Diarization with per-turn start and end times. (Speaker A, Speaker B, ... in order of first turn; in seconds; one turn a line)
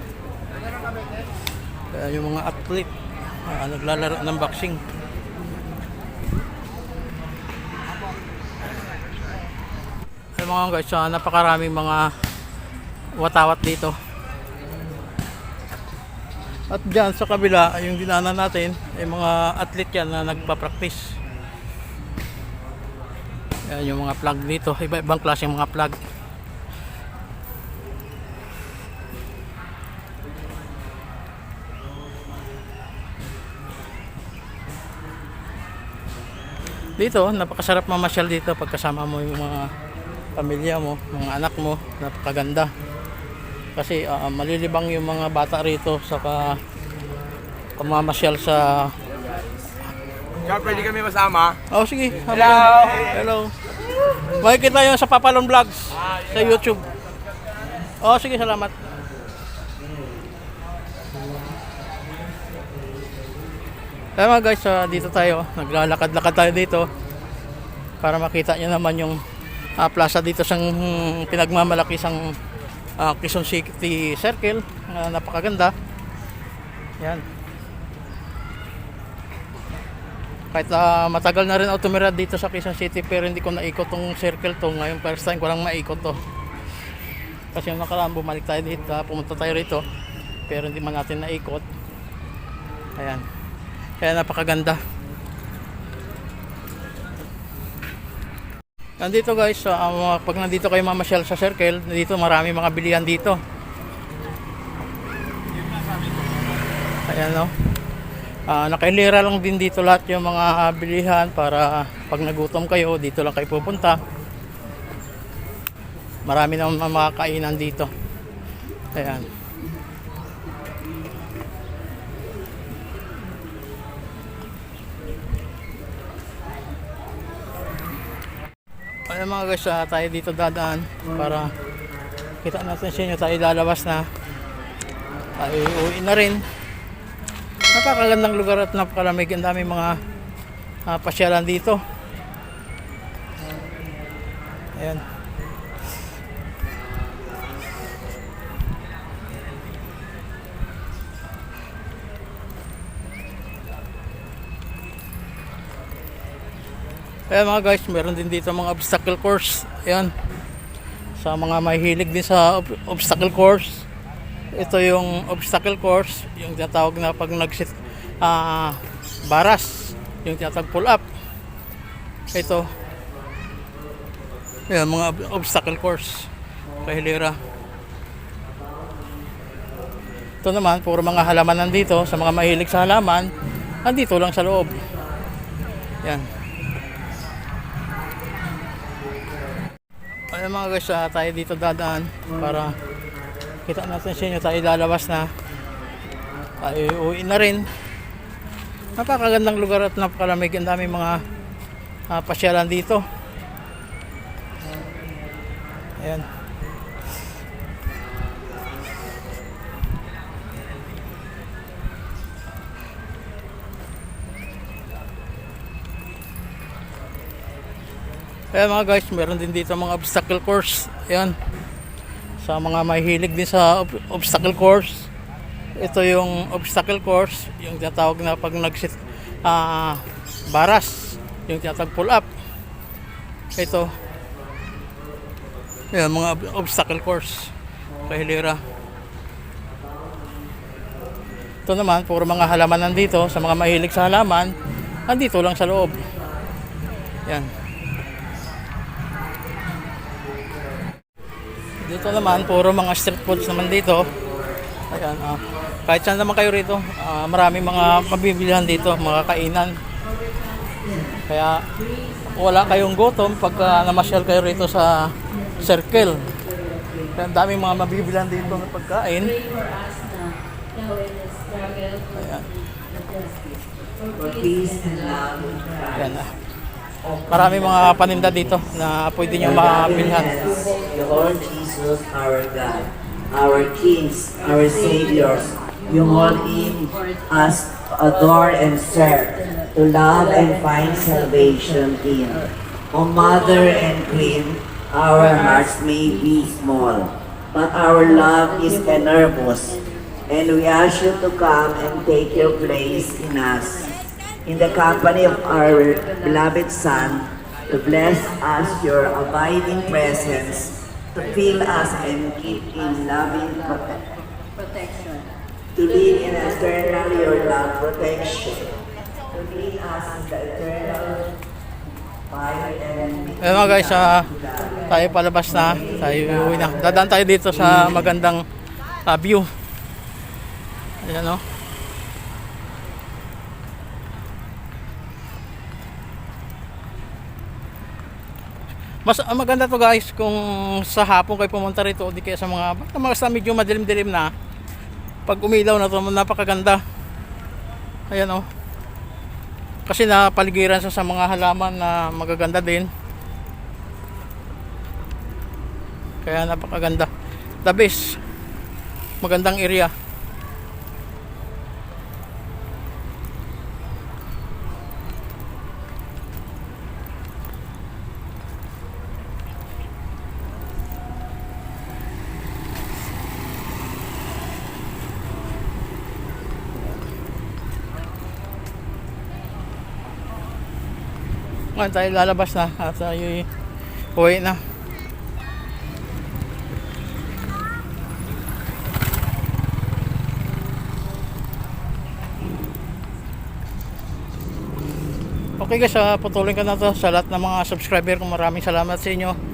Speaker A: 1.9-2.9
Speaker A: 3.4-4.8
Speaker A: 10.4-12.1
Speaker A: 13.2-13.9
Speaker A: 16.7-21.1
Speaker A: 23.7-26.0
Speaker A: 37.0-39.7
Speaker A: 40.4-42.7
Speaker A: 43.8-46.6
Speaker A: 47.8-48.9
Speaker A: 51.7-53.5
Speaker A: 54.4-56.8
Speaker A: 58.0-58.7
Speaker B: 59.9-60.2
Speaker A: 64.2-66.9
Speaker A: 68.0-69.2
Speaker A: 69.8-72.2
Speaker A: 73.0-75.7
Speaker A: 80.5-86.2
Speaker A: 87.5-89.8
Speaker A: 90.5-91.6
Speaker A: 93.0-93.2
Speaker A: 94.0-94.8
Speaker A: 99.0-103.4
Speaker A: 107.1-107.5
Speaker A: 108.5-114.0
Speaker A: 116.3-117.9
Speaker A: 118.9-119.3
Speaker A: 129.1-131.5
Speaker A: 132.4-134.1
Speaker A: 135.4-136.4
Speaker A: 137.7-140.0
Speaker A: 140.9-141.8
Speaker A: 144.8-145.0
Speaker A: 157.3-160.1
Speaker A: 161.2-163.9
Speaker A: 164.5-168.8
Speaker A: 169.3-171.1
Speaker A: 172.3-172.7
Speaker A: 174.7-176.3
Speaker A: 176.8-177.4
Speaker B: 178.5-180.0
Speaker A: 180.4-183.3
Speaker A: 183.8-184.8
Speaker A: 190.3-192.8
Speaker A: 193.7-195.3
Speaker A: 196.6-197.7
Speaker A: 199.0-201.2
Speaker A: 202.1-203.0
Speaker A: 206.0-206.3
Speaker A: 218.5-221.3
Speaker A: 222.4-225.1
Speaker A: 225.8-230.0
Speaker A: 230.5-232.3
Speaker A: 233.6-233.9
Speaker A: 235.9-237.5
Speaker A: 238.1-238.6
Speaker B: 239.9-240.6
Speaker A: 241.7-244.5
Speaker A: 245.1-246.1
Speaker A: 251.8-254.1
Speaker B: 253.5-254.6
Speaker A: 254.9-259.8
Speaker C: 260.1-261.1
Speaker A: 261.3-261.6
Speaker C: 261.8-264.2
Speaker A: 262.3-265.0
Speaker A: 265.6-266.3
Speaker A: 267.1-269.4
Speaker C: 269.2-273.4
Speaker A: 272.1-272.5
Speaker C: 274.0-275.1
Speaker B: 274.1-276.3
Speaker A: 276.0-276.3
Speaker B: 277.0-278.8
Speaker A: 277.3-280.4
Speaker B: 279.4-303.9
Speaker C: 279.4-281.3
Speaker C: 284.4-287.4
Speaker C: 288.5-289.7
Speaker C: 290.5-291.6
Speaker C: 293.3-294.1
Speaker C: 295.3-295.6
Speaker C: 298.2-299.2
Speaker C: 302.0-302.9
Speaker B: 304.4-314.0
Speaker C: 305.1-306.5
Speaker C: 307.7-310.6
Speaker C: 314.6-315.3
Speaker B: 315.8-318.8
Speaker C: 316.1-317.5
Speaker B: 319.3-321.4
Speaker B: 322.3-324.9
Speaker A: 323.4-324.3
Speaker A: 324.9-328.4
Speaker B: 325.5-328.2
Speaker A: 329.1-329.5
Speaker A: 331.0-331.4
Speaker A: 339.1-344.3
Speaker A: 345.3-346.8
Speaker A: 348.1-348.4
Speaker A: 349.9-352.9
Speaker A: 356.2-357.1
Speaker A: 357.6-358.0
Speaker A: 359.2-359.9
Speaker A: 381.8-383.5
Speaker A: 384.2-384.6
Speaker A: 395.6-399.4